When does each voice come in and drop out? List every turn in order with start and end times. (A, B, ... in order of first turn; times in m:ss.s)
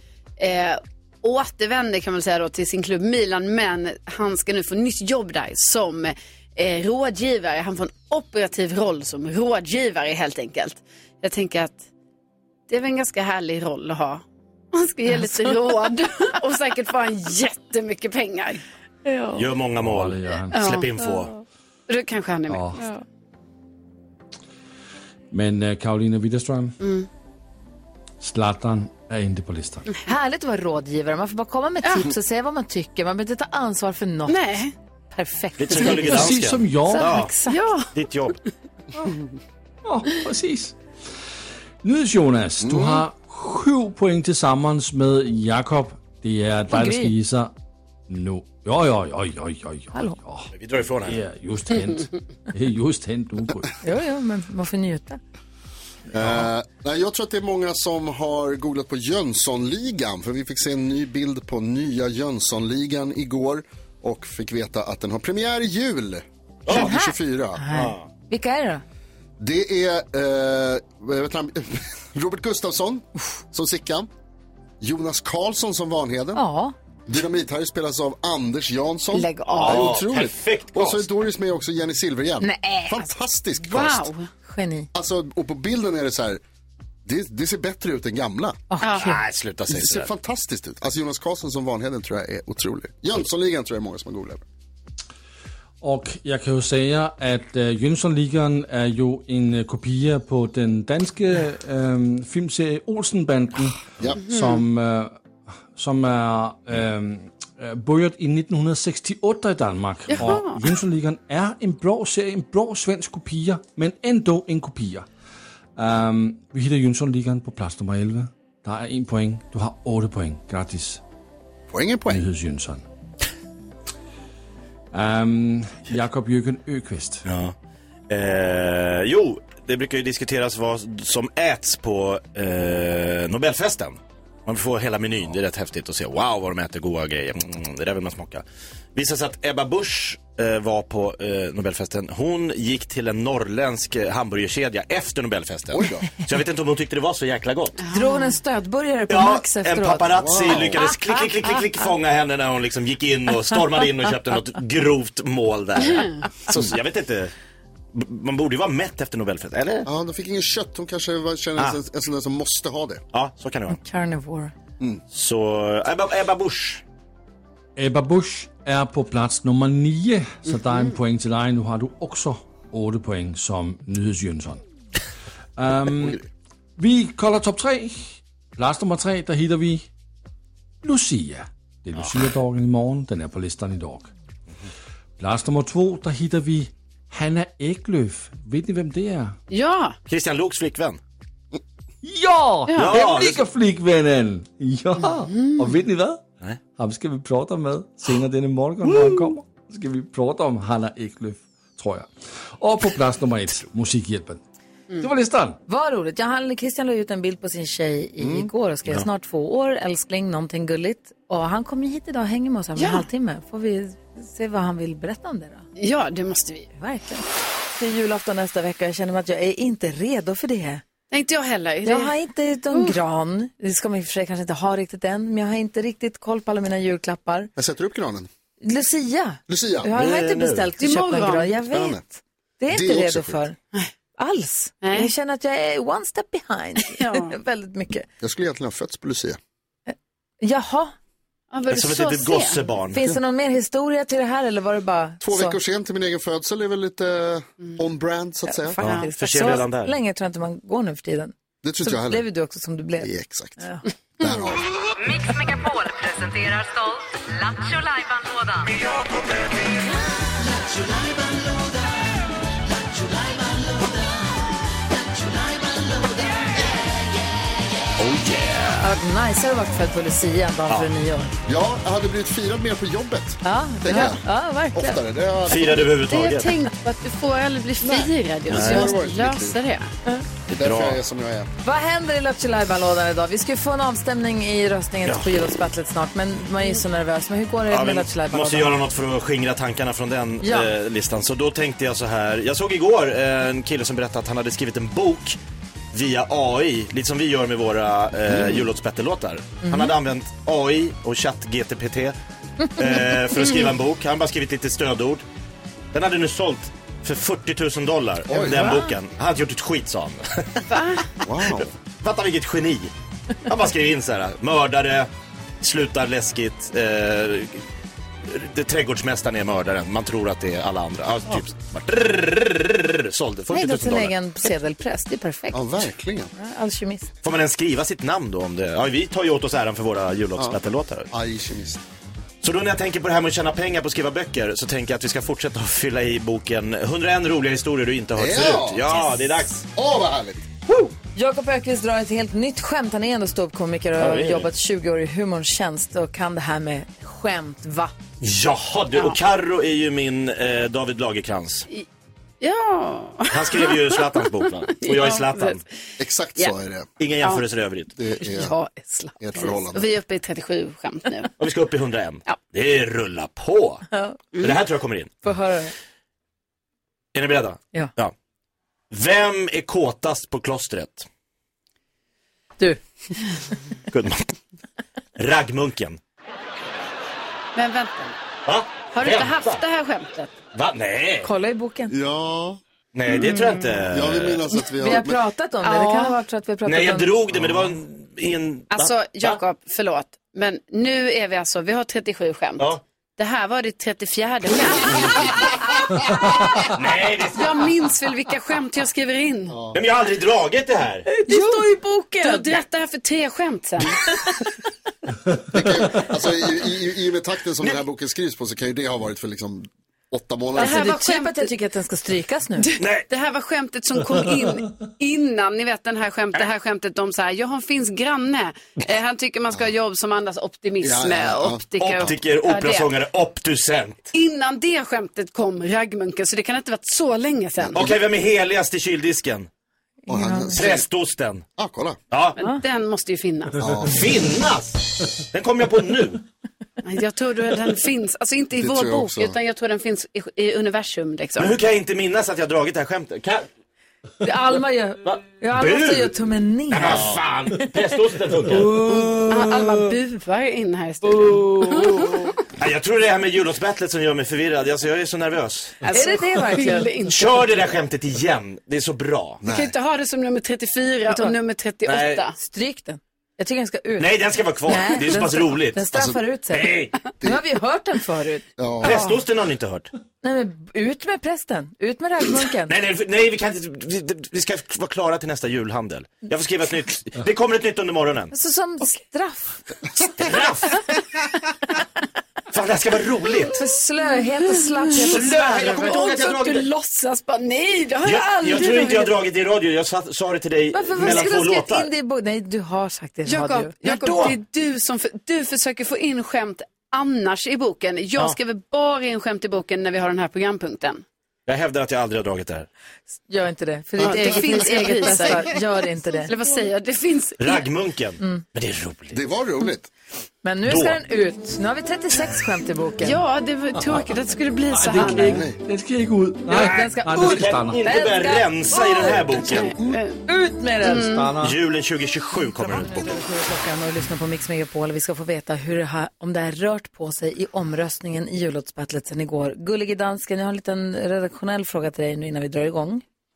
0:00.4-0:11.8 A
0:12.7-0:18.6 A
0:19.1-0:19.4 B
0:19.4-0:21.3 C
0:19.8-0:20.6 D
0:20.5-0:20.9 A
0:21.9-0:22.9 A
0:22.5-0:22.8 D
0:25.3-0:26.8 D
0:26.8-0:27.1 A
0:28.2-0:29.9 D
0:30.0-0:34.6 B
0:31.8-0:32.1 A
0:34.3-0:34.7 A
0:35.1-0:37.7 B
0:35.6-0:37.3 C
0:35.8-0:37.2 D
0:37.4-0:37.9 A
0:37.9-0:38.4 C
0:39.8-0:40.8 D
0:41.8-0:47.5 D
0:42.6-0:43.0 E
0:46.7-0:47.1 B
0:48.1-0:50.5 D
0:50.5-0:51.2 C
0:51.0-0:53.8 D
0:53.8-0:55.2 B
0:56.1-1:07.6 E
1:06.7-1:06.9 C
1:06.7-1:08.8 B
1:07.7-1:08.1 C
1:09.4-1:14.1 E
1:14.8-1:16.4 E
1:16.4-1:16.7 B
1:17.1-1:24.1 E
1:19.1-1:20.0 A
1:19.5-1:21.1 C
1:22.4-1:23.0 B
1:23.6-1:24.3 A
1:24.4-1:24.9 B
1:24.9-1:26.4 E
1:27.1-1:28.6 E
1:28.7-1:29.2 B
1:28.8-1:29.1 A
1:29.0-1:30.1 C
1:29.7-1:34.4 E
1:35.8-1:45.2 D
1:45.7-1:55.1 D
1:50.1-1:50.6 A
1:55.8-2:01.0 D
2:01.7-2:02.2 E
2:02.1-2:02.8 D
2:04.9-2:07.2 D
2:07.3-2:07.6 C
2:08.1-2:18.4 C
2:18.9-2:27.8 C
2:25.7-2:26.1 E
2:27.8-2:28.4 A
2:27.9-2:31.1 B
2:29.1-2:37.3 C
2:30.1-2:30.8 E
2:37.9-2:39.9 C
2:39.8-2:43.0 E
2:43.1-2:43.8 C
2:43.7-2:44.5 B
2:45.1-2:46.8 C
2:47.8-2:54.6 D
2:55.6-2:56.2 D
2:56.8-2:59.8 D
3:00.8-3:04.1 D
3:05.2-3:09.3 D
3:09.5-3:10.0 A
3:10.1-3:11.0 C
3:12.0-3:16.2 D
3:12.7-3:13.0 A
3:12.8-3:13.4 C
3:15.2-3:15.7 A
3:16.8-3:24.4 D
3:25.0-3:25.6 D
3:25.7-3:35.6 B
3:32.8-3:33.1 A
3:35.8-3:36.7 A
3:36.8-3:40.8 B
3:41.1-3:42.1 A
3:41.8-3:47.5 B
3:42.7-3:43.0 A
3:47.6-3:48.3 E
3:48.6-3:53.6 B
3:49.5-3:49.9 E
3:49.9-3:50.7 C
3:50.8-3:51.5 A
3:51.7-3:52.0 E
3:52.7-3:53.4 E
3:54.2-3:58.1 B
3:54.8-3:55.1 A
3:56.9-3:57.4 A
3:58.2-3:59.4 E
3:59.9-4:00.9 B
4:01.5-4:02.6 A
4:01.7-4:03.1 C
4:02.9-4:05.6 B
4:05.2-4:09.0 E
4:08.5-4:13.8 B
4:08.8-4:09.6 A
4:08.8-4:09.9 C
4:11.6-4:12.2 E
4:13.0-4:13.6 E
4:14.2-4:14.6 E
4:15.0-4:18.7 F
4:20.4-4:22.1 F
4:22.9-4:24.2 F
4:24.9-4:26.8 F
4:28.0-4:28.9 C
4:28.8-4:31.3 B
4:31.4-4:36.0 E
4:33.4-4:35.0 B
4:35.5-4:36.5 C
4:36.1-4:39.9 A
4:38.5-4:39.6 E
4:38.5-4:38.9 C
4:40.5-4:41.0 C
4:40.5-4:41.5 E
4:41.6-4:48.7 B
4:45.0-4:45.5 C
4:47.7-4:55.4 C
4:50.4-4:50.7 B
4:55.9-5:02.2 C
4:58.3-4:58.6 E
4:59.6-4:59.9 B
5:02.7-5:05.2 C
5:05.9-5:10.7 C
5:08.3-5:08.8 E
5:10.7-5:11.1 A
5:11.2-5:11.7 E
5:11.5-5:12.9 C
5:13.4-5:15.1 C
5:15.6-5:17.6 C
5:18.3-5:24.1 C
5:23.5-5:27.1 B
5:25.5-5:26.3 E
5:27.2-5:31.1 C
5:31.1-5:31.8 E
5:32.4-5:39.6 C
5:38.2-5:39.0 E
5:39.7-5:40.4 E
5:40.7-5:47.9 B
5:44.0-5:44.5 C
5:48.2-5:51.7 C
5:52.4-5:55.6 A
5:53.3-5:55.6 C
5:56.0-5:56.9 E
5:57.0-5:57.9 C
5:58.0-5:58.6 E
5:58.2-6:01.3 A
5:59.2-6:00.0 E
6:01.4-6:03.9 C
6:03.9-6:04.2 B
6:04.4-6:05.1 C
6:05.2-6:05.7 B
6:07.1-6:08.1 C
6:08.9-6:11.1 C
6:13.9-6:14.3 C
6:15.2-6:16.0 C
6:17.6-6:18.2 A
6:18.4-6:19.6 C
6:18.9-6:20.3 A
6:20.5-6:21.3 C
6:21.2-6:21.9 B
6:21.9-6:22.6 E
6:22.9-6:24.4 C
6:23.1-6:23.6 A
6:23.9-6:25.2 E
6:24.8-6:27.1 B
6:25.6-6:26.2 A
6:26.7-6:29.4 C
6:28.7-6:36.0 A
6:36.6-6:37.7 C
6:37.3-6:39.6 A
6:39.5-6:39.8 E
6:39.7-6:41.0 C
6:41.1-6:42.5 B
6:41.3-6:44.0 A
6:45.5-6:50.9 E
6:50.6-6:51.5 A
6:50.6-6:52.7 B
6:52.6-7:02.9 A
6:52.8-6:53.0 C
7:00.8-7:02.1 E
7:01.8-7:04.1 C
7:04.1-7:07.9 A
7:07.6-7:07.9 E
7:07.7-7:09.5 C
7:10.1-7:10.6 B
7:10.1-7:10.8 E
7:10.6-7:11.4 C
7:11.6-7:12.0 E
7:12.1-7:12.4 C
7:12.4-7:13.6 A
7:13.6-7:14.0 E
7:13.8-7:16.2 C
7:16.8-7:21.6 A
7:18.6-7:19.4 E
7:21.4-7:23.4 C
7:24.2-7:27.1 B
7:25.0-7:26.1 C
7:26.7-7:28.9 C
7:28.6-7:29.6 B
7:29.3-7:32.2 A
7:32.5-7:35.8 C
7:35.8-7:37.3 A
7:35.9-7:36.9 B
7:37.1-7:39.4 C
7:39.4-7:39.7 E
7:39.4-7:42.4 A
7:41.1-7:41.3 B
7:41.8-7:42.2 C
7:42.4-7:49.1 B
7:44.0-7:45.8 C
7:45.9-7:46.2 E
7:46.5-7:47.0 C
7:48.6-7:49.1 E
7:48.8-7:49.9 C
7:50.2-7:52.7 B
7:52.7-7:58.3 C
7:58.3-7:59.7 B
8:00.2-8:00.9 C
8:02.5-8:03.6 C
8:03.5-8:06.0 B
8:04.8-8:09.2 A
8:04.9-8:06.7 C
8:08.0-8:11.9 C
8:10.7-8:14.3 B
8:11.0-8:11.3 A
8:13.3-8:21.0 A
8:21.4-8:22.7 C
8:23.3-8:26.3 B
8:24.0-8:25.6 A
8:26.2-8:27.6 A
8:27.4-8:29.2 C
8:29.1-8:29.9 E
8:30.4-8:33.2 B
8:30.6-8:31.0 C
8:33.0-8:35.4 A
8:33.8-8:34.1 D
8:34.7-8:37.9 D
8:35.0-8:35.6 E
8:36.5-8:39.8 C
8:36.5-8:39.4 B
8:38.7-8:40.2 A
8:40.3-8:41.2 B
8:40.8-8:41.3 A
8:40.8-8:41.6 D
8:41.4-8:43.1 C
8:42.6-8:53.0 B